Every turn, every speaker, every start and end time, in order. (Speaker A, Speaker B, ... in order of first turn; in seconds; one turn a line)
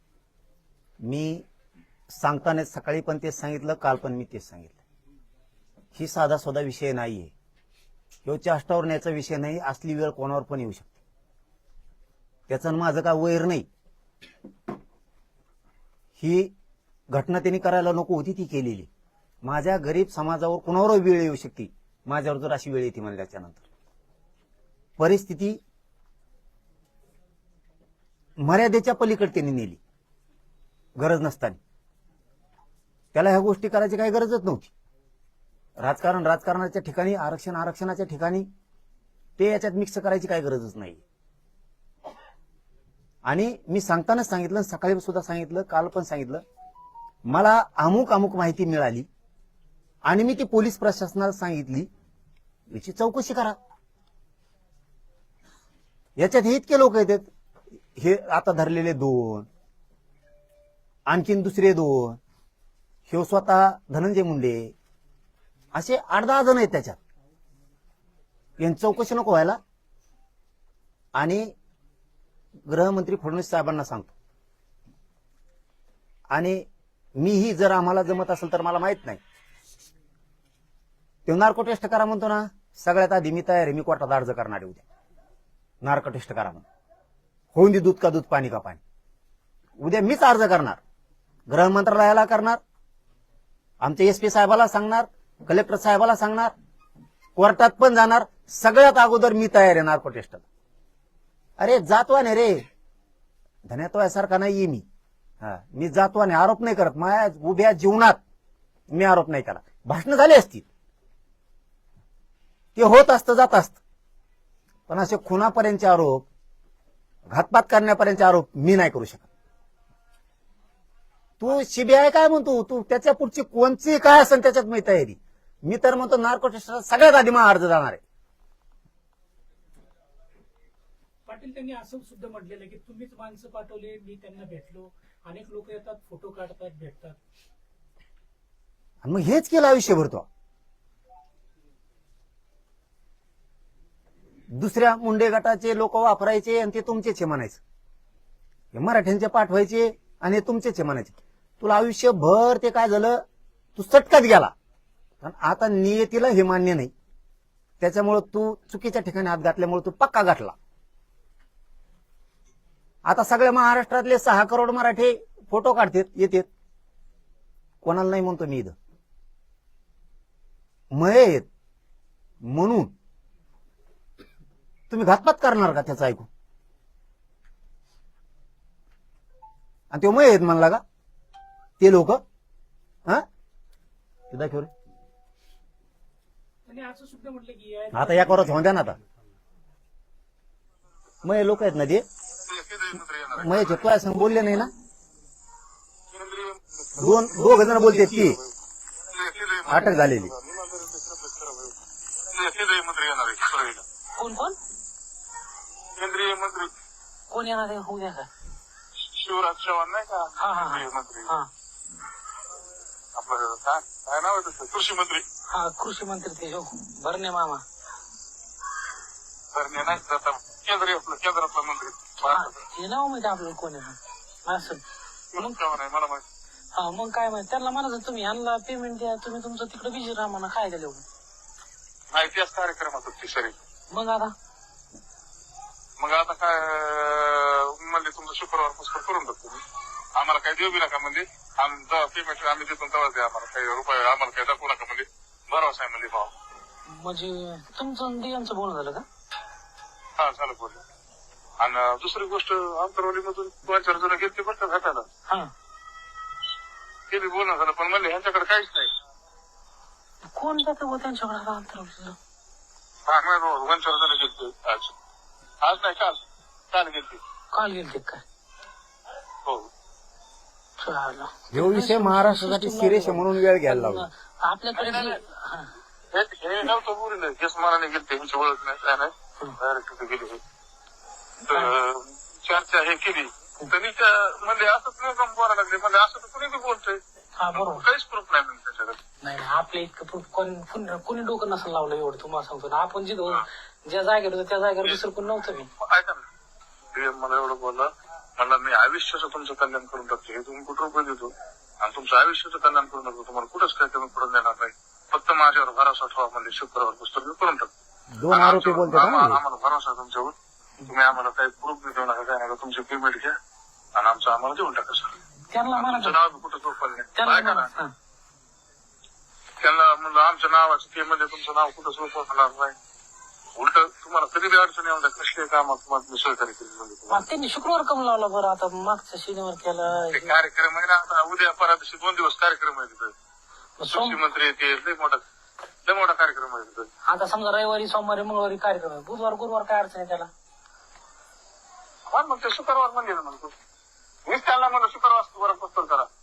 Speaker A: 1.0-1.5
Speaker A: 2.1-4.8
Speaker A: 6.0-7.3
Speaker A: 8.2-10.9
Speaker A: 12.5-13.7
Speaker A: 16.2-16.5
Speaker A: 17.1-18.9
Speaker A: 19.4-23.6
Speaker A: 25.0-25.6
Speaker A: 28.4-29.8
Speaker A: 31.0-31.6
Speaker A: 33.1-34.7
Speaker A: 35.8-38.5
Speaker A: 39.4-41.0
Speaker A: 43.2-46.4
Speaker A: 47.3-49.1
Speaker A: 50.0-51.9
Speaker A: 52.7-53.6
Speaker A: 56.2-57.3
Speaker A: 58.0-59.5
Speaker A: 61.1-62.2
Speaker A: 63.1-64.7
Speaker A: 65.7-67.0
Speaker A: 68.6-69.6
Speaker A: 71.2-71.5
Speaker A: 72.7-74.1
Speaker A: 76.3-76.7
Speaker A: 77.2-79.2
Speaker A: 81.3-84.8
Speaker A: 85.8-86.7
Speaker A: 87.5-88.8
Speaker A: 89.8-90.8
Speaker A: 91.5-92.6
Speaker A: 93.8-96.5
Speaker A: 97.4-100.4
Speaker A: 101.6-102.7
Speaker A: 103.7-104.8
Speaker A: 105.4-108.2
Speaker A: 108.9-110.7
Speaker A: 112.8-113.8
Speaker A: 114.9-116.3
Speaker A: 117.3-119.3
Speaker A: 121.4-128.0
Speaker B: 131.3-137.2
Speaker A: 139.0-140.3
Speaker A: 144.5-147.6
Speaker A: 148.7-153.2
Speaker A: 153.8-154.5
Speaker A: 155.2-156.9
Speaker A: 157.8-160.6
Speaker A: 163.1-166.5
Speaker A: 167.8-168.8
Speaker A: 170.9-171.5
Speaker A: 172.4-172.9
Speaker A: 174.9-176.3
Speaker A: 179.9-180.8
Speaker A: 181.8-182.2
Speaker A: 184.3-184.7
Speaker B: 186.7-188.7
Speaker A: 187.9-189.0
Speaker A: 191.2-192.1
Speaker C: 192.5-193.8
Speaker A: 193.4-194.7
Speaker C: 196.1-198.5
Speaker A: 197.0-198.4
Speaker C: 199.1-201.8
Speaker A: 199.7-200.3
Speaker C: 202.3-203.8
Speaker D: 204.2-204.6
Speaker C: 206.0-206.7
Speaker D: 207.3-208.3
Speaker C: 209.1-211.3
Speaker D: 210.4-211.5
Speaker C: 213.2-215.2
Speaker D: 215.5-217.6
Speaker C: 219.5-222.6
Speaker D: 222.2-224.8
Speaker C: 225.3-226.2
Speaker D: 226.8-231.1
Speaker C: 232.1-233.6
Speaker D: 233.9-234.3
Speaker C: 236.0-239.6
Speaker C: 240.2-246.3
Speaker D: 246.9-249.1
Speaker C: 250.2-250.8
Speaker C: 251.6-255.1
Speaker C: 257.1-258.9
Speaker D: 260.3-262.2
Speaker C: 263.1-264.9
Speaker C: 265.6-266.2
Speaker C: 266.7-267.2
Speaker D: 267.5-268.2
Speaker D: 270.8-275.7
Speaker A: 271.5-274.1
Speaker C: 274.8-275.2
Speaker C: 276.1-280.4
Speaker C: 281.5-287.0
Speaker D: 287.4-287.8
Speaker C: 287.5-289.0
Speaker D: 289.2-295.7
Speaker C: 294.8-295.1
Speaker C: 295.8-296.2
Speaker C: 296.9-307.7
Speaker A: 308.1-309.4
Speaker C: 308.3-310.3
Speaker C: 310.9-313.4
Speaker C: 314.0-315.1
Speaker D: 315.5-316.2
Speaker C: 315.7-317.7
Speaker D: 317.2-317.9
Speaker C: 319.6-322.8
Speaker C: 323.6-327.3
Speaker D: 327.1-330.4
Speaker C: 330.1-333.1
Speaker D: 333.8-334.2
Speaker C: 333.9-335.2
Speaker C: 335.9-336.9
Speaker D: 337.1-340.3
Speaker C: 342.1-343.5
Speaker C: 344.3-346.1